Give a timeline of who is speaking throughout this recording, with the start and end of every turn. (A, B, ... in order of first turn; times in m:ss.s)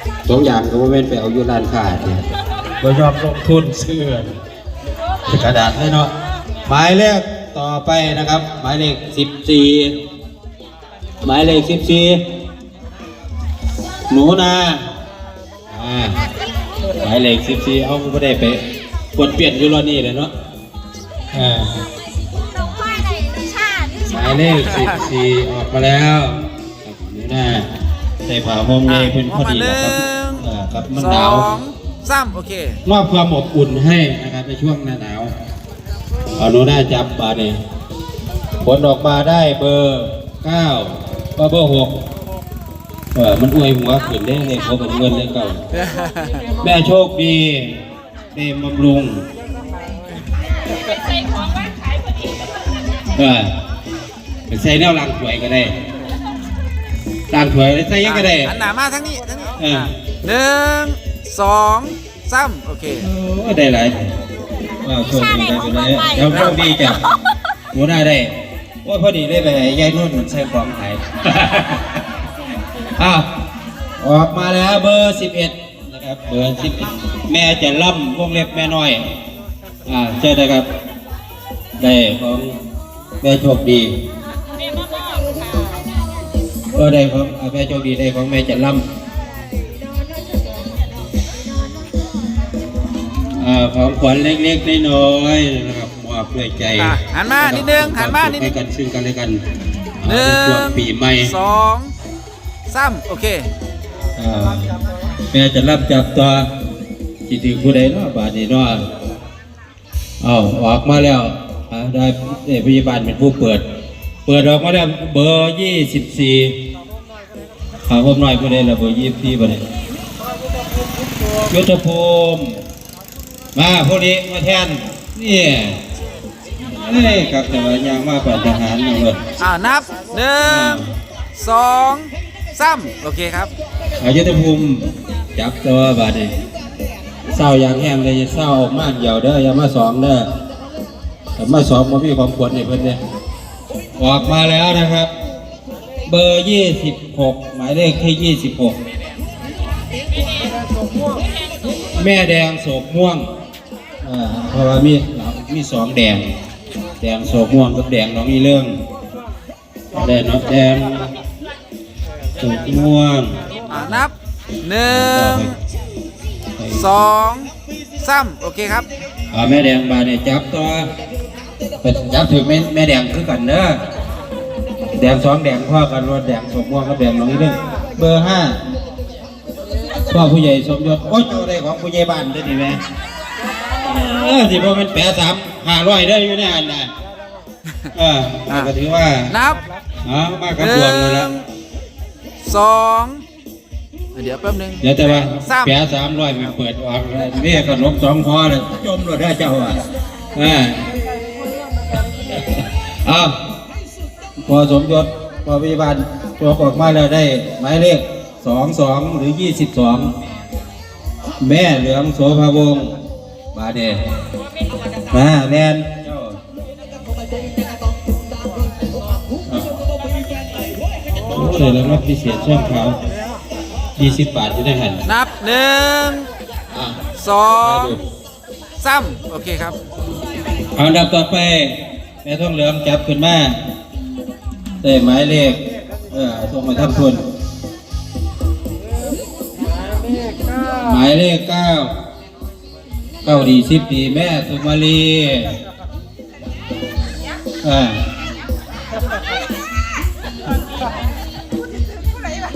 0:00.3-0:02.2 A
0:02.8-0:04.3 A
0:05.3-0:06.1 A
0:06.7-0:09.9 A
0:11.2-0:12.2 A
0:14.1-0:14.9 A
0:15.7-0:16.3 A
0:17.0-0:18.6 A
0:19.2-0:20.3 A
0:21.3-0:21.7 A
0:23.4-0:23.9 B
0:24.0-0:27.7 A
0:28.2-0:31.5 A
0:28.9-0:30.4 C
0:31.0-0:32.8 C
0:32.9-0:35.3 A
0:36.4-0:37.6 A
0:38.6-0:41.9 A
0:43.2-0:45.6 A
0:45.7-0:46.6 C
0:46.6-0:47.8 A
0:48.3-0:49.2 A
0:53.1-0:53.5 A
0:54.5-0:55.8 A
0:57.3-0:58.6 A
0:58.0-1:03.1 C
0:59.6-0:59.9 A
1:03.0-1:04.1 A
1:04.8-1:07.0 A
1:07.7-1:08.3 A
1:08.8-1:12.0 A
1:13.0-1:13.3 A
1:14.0-1:19.0 A
1:19.9-1:20.7 A
1:21.8-1:22.6 A
1:23.2-1:23.9 A
1:25.3-1:25.7 B
1:26.7-1:28.9 A
1:33.4-1:39.4 A
1:36.8-1:38.5 C
1:40.0-1:41.3 A
1:40.0-1:41.9 C
1:42.7-1:43.5 C
1:44.2-1:44.7 A
1:45.3-1:46.5 A
1:47.3-1:48.8 A
1:50.2-1:53.6 A
1:54.3-1:56.6 A
1:57.9-1:59.6 A
2:01.5-2:02.6 A
2:03.6-2:05.8 A
2:06.7-2:09.2 A
2:09.4-2:10.8 C
2:10.4-2:10.9 A
2:11.4-2:13.5 C
2:14.0-2:16.3 A
2:17.3-2:20.3 A
2:21.4-2:23.0 A
2:24.0-2:25.1 A
2:26.1-2:28.8 A
2:30.2-2:31.7 B
2:31.9-2:33.3 A
2:34.0-2:36.2 A
2:37.0-2:38.8 A
2:39.9-2:41.1 A
2:42.4-2:44.0 A
2:43.7-2:45.5 C
2:44.8-2:45.6 A
2:46.6-2:46.8 A
2:46.8-2:48.9 C
2:49.3-2:50.9 A
2:51.8-2:53.8 A
2:54.9-2:58.6 A
3:00.1-3:02.8 A
3:03.8-3:06.9 A
3:08.0-3:09.4 A
3:09.3-3:09.6 C
3:10.0-3:11.3 A
3:10.6-3:11.4 C
3:12.4-3:13.2 C
3:14.2-3:15.7 C
3:14.8-3:20.8 A
3:22.2-3:23.4 A
3:24.4-3:30.1 A
3:31.4-3:33.0 A
3:33.5-3:34.0 A
3:35.1-3:36.4 A
3:36.8-3:41.2 B
3:41.3-3:43.0 A
3:44.0-3:45.0 A
3:45.0-3:46.3 C
3:46.7-3:47.0 A
3:47.2-3:48.0 C
3:47.6-3:48.0 A
3:48.8-3:49.8 C
3:50.8-3:53.6 A
3:54.8-3:57.2 A
4:00.7-4:01.9 A
4:03.2-4:05.5 A
4:07.6-4:08.0 A